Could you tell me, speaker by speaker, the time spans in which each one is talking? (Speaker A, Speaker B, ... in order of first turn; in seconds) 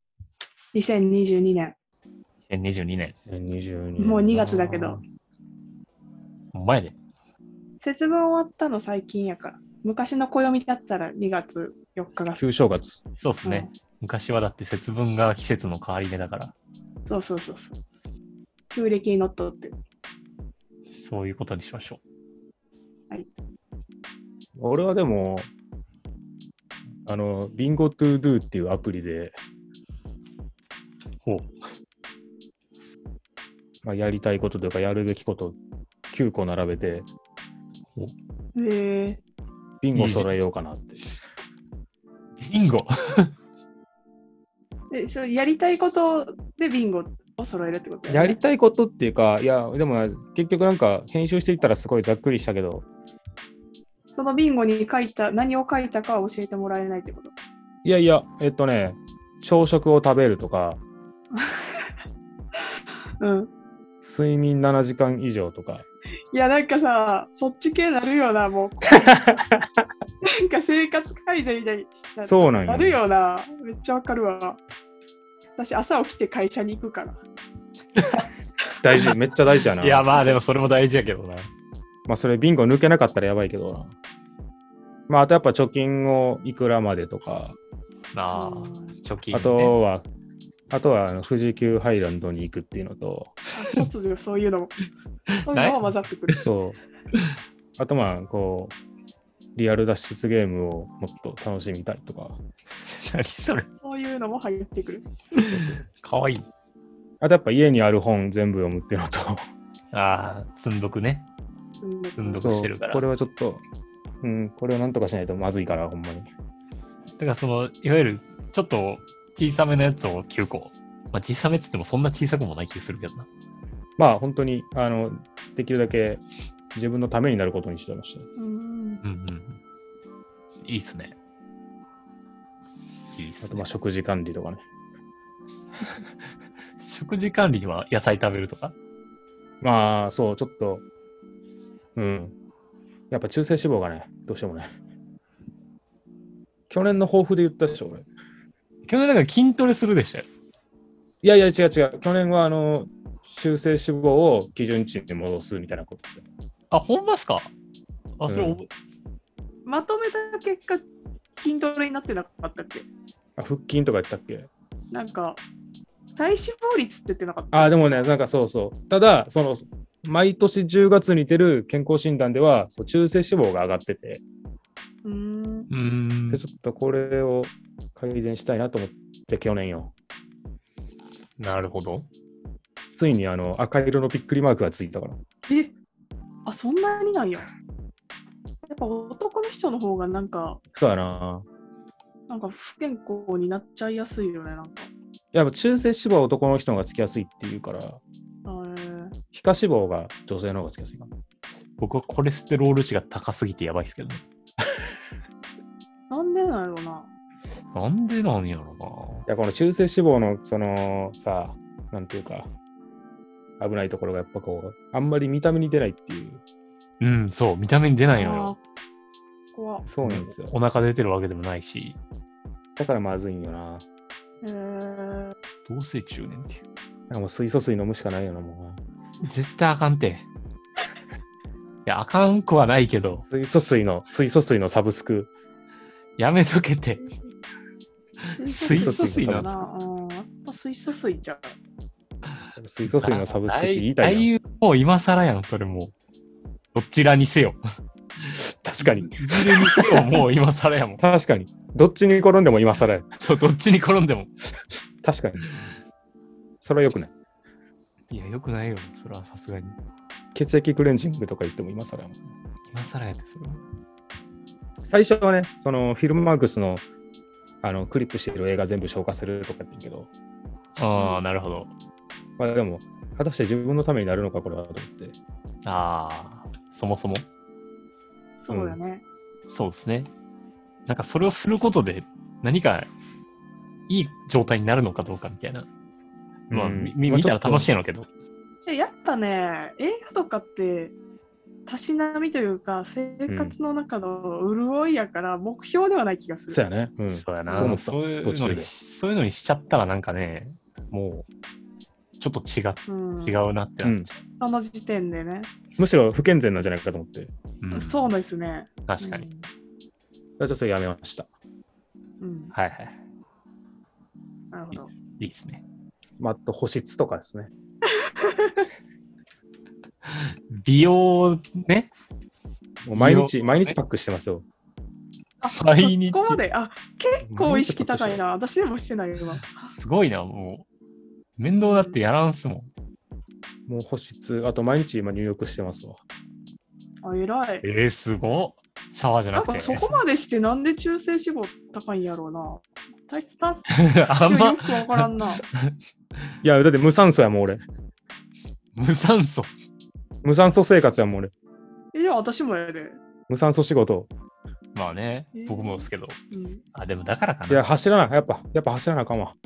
Speaker A: 0.7-1.8, 4.0-5.0, 7.8-12.4, 13.4-13.7, 17.1-17.8, 18.7-19.8, 38.5-39.2, 44.9-48.4, 54.1-57.3, 61.3-61.9, 63.2-63.5, 66.3-69.2, 70.2-74.6, 75.6-77.2, 88.3-88.9, 93.5-94.7, 95.3-96.5, 103.8-105.1, 111.8-112.5, 128.4-129.0, 159.7-160.8, 161.4-162.9, 164.9-165.4, 166.2-168.1, 175.0-175.7, 185.5-185.7, 186.4-187.5, 188.7-190.6, 192.3-194.9, 198.4-199.2, 206.1-207.1, 218.1-218.6, 219.5-219.8, 224.4-225.3, 238.3-241.6, 270.9-271.2, 278.4-279.0, 288.6-290.9, 291.7-296.6, 297.5-297.8, 302.9-303.4, 304.4-305.5, 307.7-309.5, 312.2-312.5, 314.5-314.9, 317.9-318.7, 325.4-329.7, 331.6-332.0, 337.0-337.6, 339.4-345.4, 351.9-353.0, 355.4-356.6
Speaker B: 2.5-3.1, 6.5-7.0, 13.2-16.5, 20.9-22.0, 31.2-31.5, 39.9-40.3, 42.4-43.3, 78.0-78.2, 79.8-81.5, 88.1-89.8, 95.5-95.8, 102.8-103.7, 105.3-106.5, 109.9-111.3, 112.2-113.0, 117.2-123.3, 129.0-129.6, 130.6-131.2, 133.1-133.7, 136.8-138.7, 148.8-150.3, 156.7-157.5, 158.2-158.7, 175.7-176.4, 181.4-182.1, 201.8-204.2, 207.7-209.2, 217.0-218.5, 220.0-222.0, 225.6-226.6, 229.2-230.2, 231.8-233.2, 236.2-237.1, 238.4-239.6, 242.9-245.9, 246.7-247.6, 248.8-251.0, 253.2-254.3, 258.1-259.8, 262.7-263.6, 270.8-271.7, 275.6-277.2, 279.5-280.1, 280.9-282.9, 283.9-285.7, 286.5-288.1, 297.1-301.3, 302.2-304.2, 307.6-308.1, 308.9-309.3, 312.5-312.9, 314.7-315.6, 320.0-321.9, 322.9-323.8, 325.6-326.4, 329.3-330.7, 331.4-332.7, 337.6-340.0, 343.7-345.7, 348.8-349.5, 354.7-356.2, 356.7-357.6
Speaker C: 3.2-5.0, 12.3-13.0, 24.6-25.5, 27.1-29.4, 33.8-35.6, 36.1-37.1, 39.8-41.0, 48.1-52.9, 57.8-60.8, 64.0-65.8, 68.9-69.8, 72.2-73.0, 78.8-80.1, 82.1-83.9, 85.1-87.6, 89.3-90.1, 90.7-93.4, 96.4-96.8, 97.8-98.8, 99.5-102.4, 107.2-109.4, 112.4-113.6, 114.2-116.3, 124.0-126.2, 126.7-128.2, 133.4-134.6, 139.6-140.8, 141.9-142.3, 143.1-144.7, 146.7-148.1, 151.2-156.2, 158.3-158.6, 163.4-164.5, 167.5-174.2, 176.3-179.9, 182.9-185.2, 190.7-191.4, 195.3-198.0, 199.3-201.1, 209.3-212.5, 213.6-216.4, 219.9-220.6, 222.8-223.8, 227.1-228.8, 233.3-235.3, 238.8-239.6, 242.6-244.3, 248.6-250.2, 251.0-253.1, 255.0-255.6, 256.6-257.1, 260.3-262.2, 264.8-266.8, 267.6-270.1, 272.4-275.2, 278.5-278.8, 286.5-287.7, 293.3-293.6, 296.5-298.7, 303.8-304.1, 305.8-307.3, 310.4-311.3, 316.2-317.5, 322.8-324.4, 327.2-328.2, 333.7-336.0, 346.4-347.6, 350.2-351.3, 353.3-354.1, 357.5-359.4